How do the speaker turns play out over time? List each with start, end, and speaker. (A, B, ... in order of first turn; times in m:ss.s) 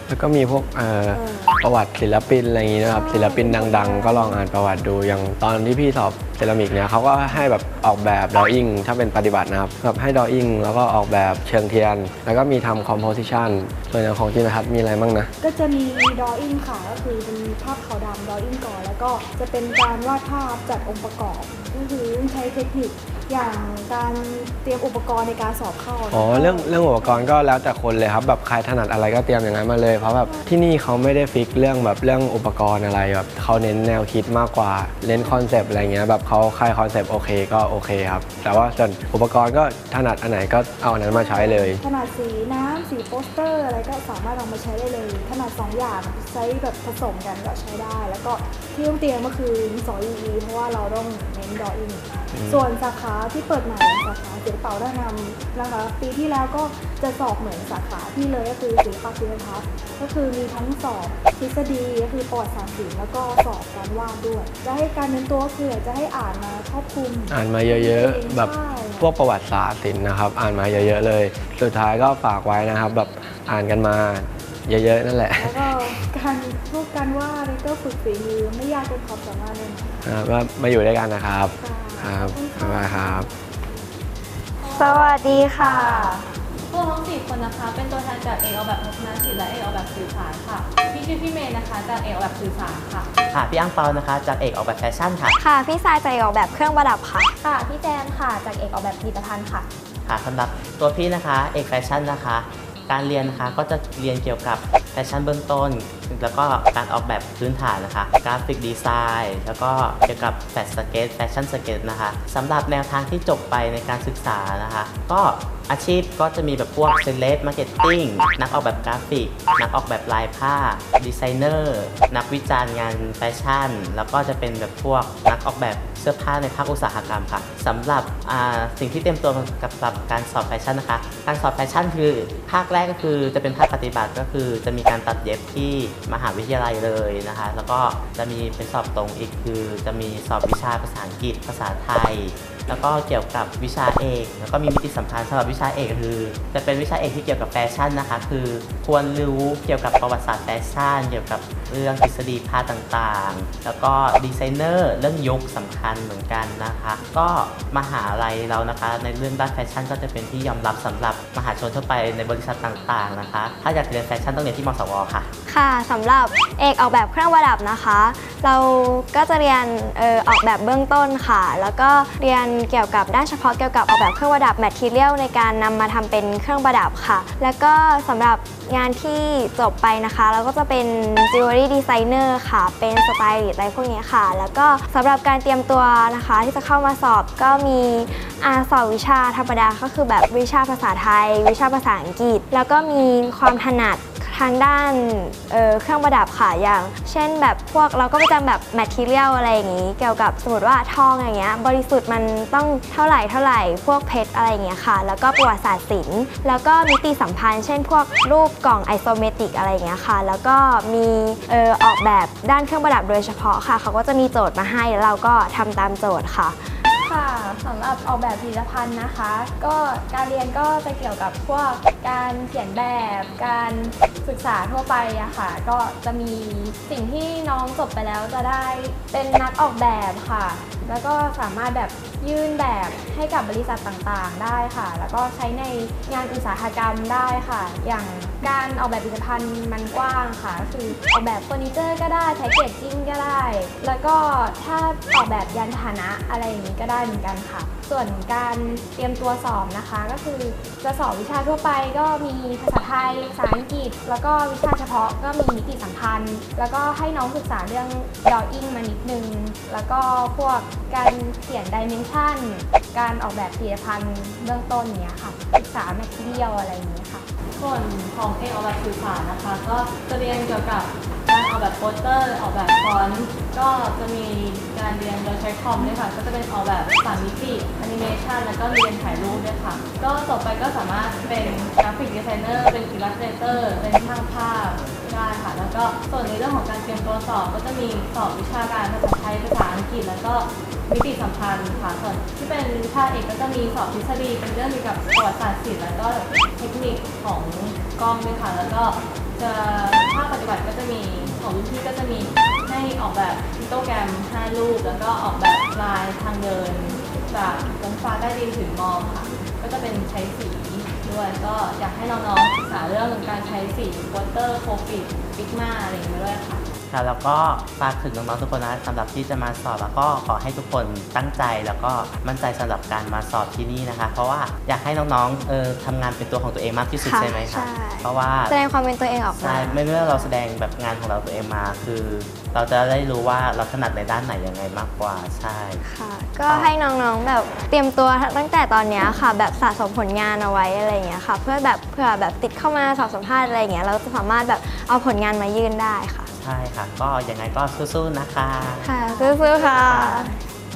0:00.1-0:15.3 A
0:01.1-0:01.6 B
0:02.7-0:04.5 B
0:07.2-0:07.5 B
0:15.4-0:27.4 B
0:26.1-0:41.8 A
0:30.0-0:30.5 B
0:35.0-0:35.5 B
0:38.5-0:38.8 B
0:41.0-1:09.2 B
1:07.3-1:16.0 A
1:15.3-1:20.2 B
1:20.1-1:23.3 A
1:21.6-1:23.3 B
1:24.6-1:33.1 C
1:24.7-1:26.2 D
1:33.3-1:35.4 E
1:35.4-1:37.4 D
1:37.4-1:39.7 F
1:40.1-2:45.3 E
2:45.5-3:36.8 D
3:36.9-4:27.3 F
4:27.6-5:16.6 C
5:16.9-5:28.5 E
5:27.0-5:30.3 D
5:29.3-5:35.8 E
5:35.8-5:46.3 D
5:36.5-5:36.7 E
5:46.4-5:49.0 E
5:48.8-5:50.3 D
5:49.1-5:49.4 F
5:49.6-5:50.4 E